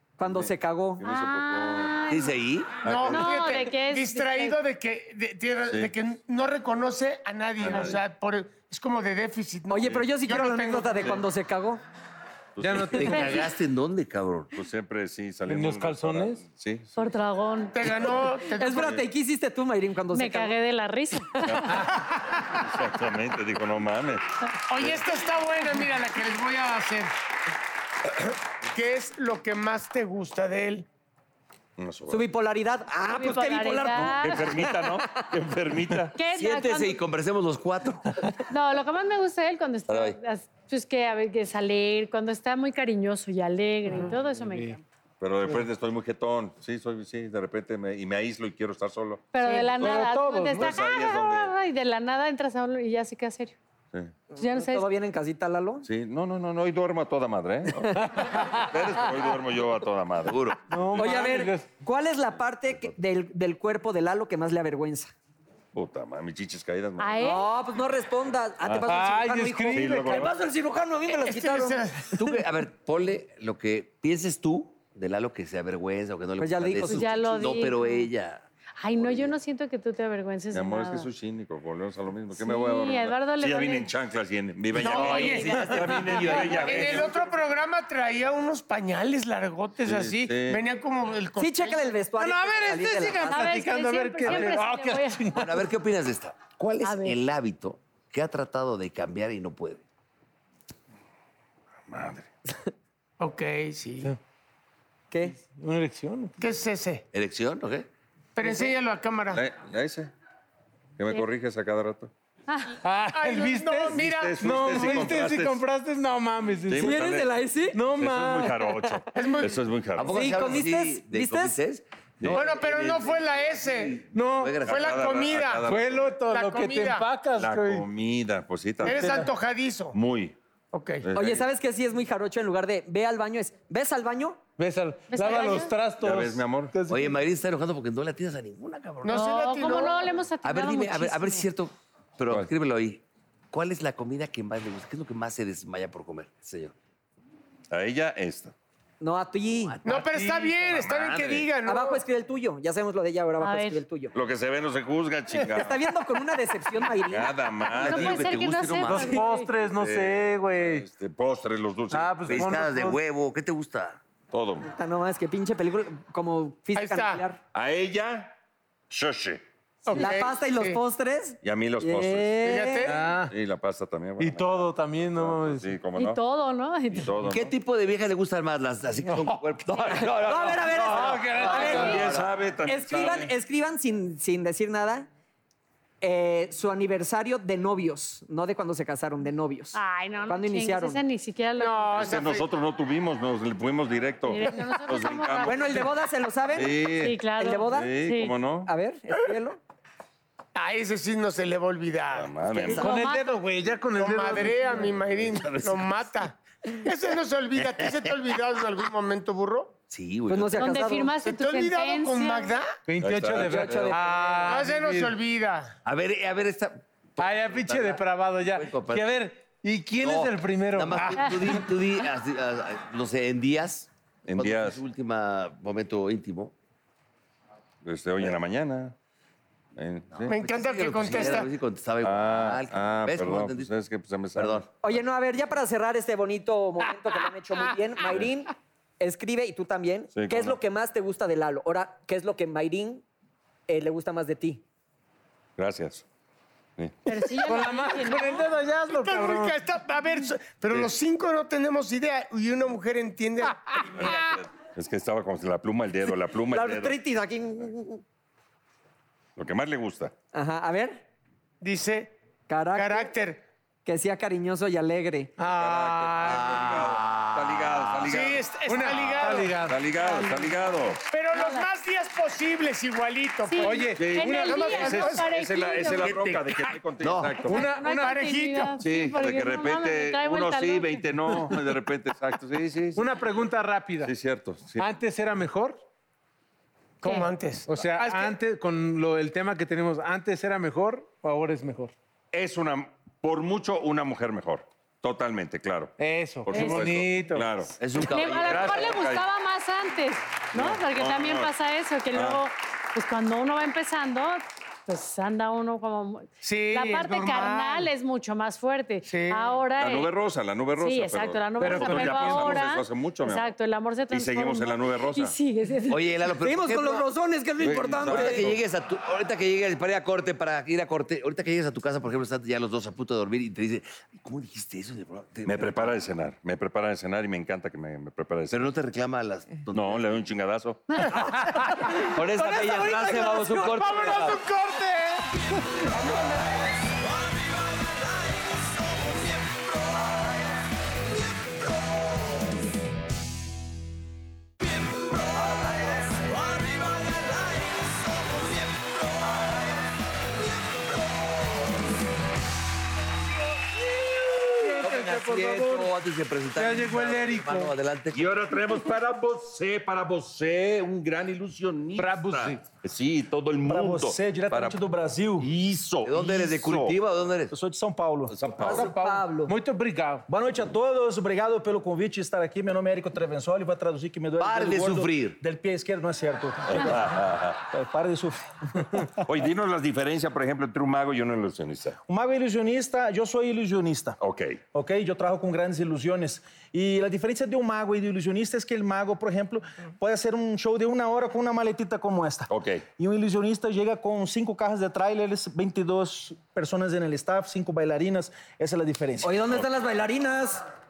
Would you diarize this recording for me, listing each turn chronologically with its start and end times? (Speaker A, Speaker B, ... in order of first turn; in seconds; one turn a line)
Speaker A: 0.2-1.0
Speaker B: 0.2-2.0
Speaker C: 1.0-2.3
Speaker D: 2.1-3.1
Speaker E: 2.8-11.2
Speaker B: 2.8-3.3
Speaker C: 3.1-4.6
Speaker B: 5.7-5.9
Speaker B: 7.6-8.0
Speaker A: 9.7-11.8
Speaker B: 12.6-13.3
Speaker F: 12.6-13.5
Speaker D: 12.8-14.5
Speaker B: 14.5-17.1
Speaker F: 15.5-16.4
Speaker C: 17.0-18.1
Speaker E: 17.7-19.0
Speaker A: 18.6-20.5
Speaker B: 18.7-19.0
Speaker C: 20.1-21.9
Speaker B: 21.4-21.9
Speaker F: 21.8-22.0
Speaker B: 22.4-25.0
Speaker E: 24.7-27.1
Speaker E: 28.1-30.9
Speaker B: 31.8-32.3
Speaker A: 32.1-34.9
Speaker C: 33.1-34.5
Speaker B: 34.0-36.2
Speaker C: 36.1-37.0
Speaker D: 36.3-38.4
Speaker C: 38.5-44.8
Speaker D: 39.9-40.2
Speaker F: 44.0-44.7
Speaker B: 45.2-49.2
Speaker C: 49.3-53.5
Speaker A: 49.4-49.7
Speaker F: 49.6-50.7
Speaker B: 50.5-51.5
Speaker A: 54.3-55.9
Speaker C: 54.4-54.9
Speaker B: 55.8-61.2
Speaker A: 58.0-58.4
Speaker D: 60.2-60.7
Speaker F: 60.7-61.7
Speaker A: 60.9-65.1
Speaker B: 65.7-67.2
Speaker C: 67.0-67.5
Speaker A: 67.2-72.4
Speaker B: 68.6-68.9
Speaker F: 68.8-70.3
Speaker B: 69.7-70.3
Speaker E: 71.1-72.2
Speaker D: 72.1-78.4
Speaker A: 76.4-77.1
Speaker C: 76.9-78.1
Speaker C: 78.8-81.1
Speaker D: 79.0-79.3
Speaker B: 80.5-87.1
Speaker C: 82.3-83.9
Speaker E: 84.7-85.6
Speaker D: 84.7-87.1
Speaker A: 85.0-85.5
Speaker E: 86.3-91.9
Speaker B: 89.8-90.6
Speaker A: 91.4-93.5
Speaker F: 92.2-95.5
Speaker C: 93.3-95.4
Speaker D: 95.3-99.8
Speaker C: 96.8-97.2
Speaker B: 101.9-102.3
Speaker E: 103.2-104.1
Speaker A: 105.1-105.4
Speaker F: 105.4-106.3
Speaker E: 106.4-107.0
Speaker D: 107.1-107.9
Speaker E: 108.3-109.4
Speaker B: 109.3-110.1
Speaker B: 111.0-112.1
Speaker C: 112.5-112.8
Speaker F: 112.8-117.0
Speaker E: 113.1-115.2
Speaker B: 113.9-115.6
Speaker B: 116.7-117.3
Speaker A: 116.7-117.8
Speaker F: 117.7-118.9
Speaker B: 117.9-120.3
Speaker E: 119.1-119.6
Speaker D: 119.9-125.0
Speaker A: 120.1-121.5
Speaker E: 122.3-124.0
Speaker F: 124.1-124.6
Speaker B: 124.7-126.2
Speaker E: 124.7-125.8
Speaker F: 125.6-127.8
Speaker E: 126.3-127.1
Speaker B: 127.3-129.3
Speaker E: 128.8-129.9
Speaker F: 128.8-129.3
Speaker B: 129.9-130.4
Speaker E: 130.7-131.1
Speaker B: 131.0-131.5
Speaker A: 131.1-134.4
Speaker F: 134.6-137.2
Speaker C: 135.1-135.7
Speaker B: 136.0-136.7
Speaker D: 136.9-139.2
Speaker E: 139.0-140.1
Speaker C: 139.1-141.5
Speaker D: 140.4-146.7
Speaker B: 147.7-148.5
Speaker A: 149.0-149.8
Speaker D: 149.6-150.1
Speaker E: 149.8-152.0
Speaker F: 149.9-150.9
Speaker B: 150.9-151.4
Speaker D: 150.9-151.4
Speaker A: 151.6-154.1
Speaker C: 153.4-153.8
Speaker B: 154.1-155.8
Speaker A: 155.5-157.4
Speaker B: 157.1-158.8
Speaker C: 157.6-159.5
Speaker D: 157.7-159.2
Speaker F: 158.8-160.8
Speaker B: 159.6-162.5
Speaker F: 161.9-163.0
Speaker D: 162.3-164.0
Speaker B: 164.3-164.7
Speaker A: 164.7-167.4
Speaker E: 166.7-167.2
Speaker B: 167.5-168.3
Speaker B: 168.9-169.4
Speaker E: 169.8-170.8
Speaker A: 169.9-172.9
Speaker B: 171.4-172.7
Speaker E: 172.4-173.1
Speaker F: 172.8-173.3
Speaker B: 173.2-176.2
Speaker F: 174.2-175.7
Speaker C: 175.9-177.1
Speaker B: 176.9-177.5
Speaker D: 177.2-182.3
Speaker F: 179.1-179.4
Speaker A: 180.1-182.0
Speaker F: 180.9-182.1
Speaker B: 181.4-183.3
Speaker A: 182.6-185.1
Speaker A: 186.0-191.0
Speaker C: 189.7-192.2
Speaker E: 191.6-192.4
Speaker B: 191.9-195.9
Speaker C: 194.3-195.9
Speaker A: 195.4-196.8
Speaker B: 196.5-198.7
Speaker C: 196.8-198.3
Speaker A: 197.4-197.9
Speaker A: 198.7-199.6
Speaker E: 200.5-202.3
Speaker B: 202.1-202.9
Speaker F: 202.7-204.8
Speaker C: 202.7-203.4
Speaker E: 203.9-209.7
Speaker B: 204.9-205.4
Speaker D: 205.4-205.8
Speaker D: 209.9-210.8
Speaker A: 210.3-211.1
Speaker C: 210.6-212.6
Speaker E: 211.2-212.7
Speaker F: 212.9-215.1
Speaker B: 213.0-213.8
Speaker A: 213.3-214.6
Speaker E: 214.4-215.8
Speaker D: 215.8-219.2
Speaker F: 217.2-221.7
Speaker D: 220.0-226.5
Speaker B: 224.3-224.8
Speaker B: 227.8-228.9
Speaker B: 229.8-230.3
Speaker E: 230.2-231.5
Speaker D: 230.3-233.7
Speaker B: 232.0-235.0
Speaker D: 234.3-234.7
Speaker A: 234.8-243.0
Speaker B: 240.1-240.6
Speaker A: 243.7-244.6
Speaker B: 245.6-246.0
Speaker C: 247.1-248.5
Speaker F: 247.3-249.6
Speaker E: 248.9-254.4
Speaker B: 253.9-256.9
Speaker A: 256.5-258.0
Speaker B: 259.4-260.1
Speaker A: 260.3-261.0
Speaker E: 261.6-262.1
Speaker A: 262.5-263.1
Speaker E: 262.7-263.4
Speaker A: 263.8-265.3
Speaker F: 265.4-266.9
Speaker B: 265.4-271.0
Speaker D: 266.3-267.9
Speaker E: 268.0-269.7
Speaker F: 268.6-269.8
Speaker C: 270.0-270.5
Speaker E: 271.1-275.2
Speaker C: 271.3-271.7
Speaker C: 273.5-276.1
Speaker F: 273.6-275.2
Speaker B: 273.9-277.6
Speaker D: 276.0-276.4
Speaker D: 277.0-277.5
Speaker F: 277.5-278.1
Speaker C: 277.5-281.1
Speaker E: 277.5-278.8
Speaker B: 278.8-283.1
Speaker F: 282.9-284.1
Speaker B: 284.0-284.9
Speaker F: 284.8-285.8
Speaker E: 287.0-288.3
Speaker C: 287.0-287.3
Speaker F: 287.7-291.9
Speaker B: 292.3-297.8
Speaker F: 296.0-297.5
Speaker C: 296.5-296.9
Speaker D: 297.8-299.0
Speaker C: 298.0-310.1
Speaker B: 298.4-299.2
Speaker B: 300.5-301.5
Speaker B: 302.1-302.4
Speaker E: 306.4-307.9
Speaker E: 309.1-309.5
Speaker B: 309.8-313.5
Speaker C: 310.8-316.1
Speaker F: 311.6-312.6
Speaker B: 314.1-315.4
Speaker D: 315.9-317.1
Speaker A: 316.4-318.5
Speaker B: 317.6-318.6
Speaker D: 317.9-325.9
Speaker B: 325.4-328.7
Speaker D: 328.5-330.1
Speaker B: 329.7-331.1
Speaker F: 331.6-331.9
Speaker D: 331.9-334.4
Speaker A: 332.3-334.1
Speaker F: 333.1-335.4
Speaker A: 336.0-336.2
Speaker D: 337.1-340.2
Speaker D: 345.4-349.4
Speaker F: 354.6-355.9
Speaker D: 354.7-358.3
Speaker F: 356.6-357.7
Speaker B: 358.1-364.8
Speaker F: 362.0-362.6
Speaker G: 363.6-365.5
Speaker B: 365.4-367.0
Speaker D: 366.0-367.5
Speaker G: 367.5-368.9
Speaker B: 368.3-368.9
Speaker A: 368.6-369.5
Speaker F: 368.8-370.2
Speaker G: 370.3-379.2
Speaker D: 374.4-375.4
Speaker B: 376.7-377.6
Speaker B: 379.1-382.0
Speaker G: 382.1-384.2
Speaker B: 384.2-384.6
Speaker G: 384.7-399.4
Speaker B: 392.5-392.8
Speaker A: 399.2-400.6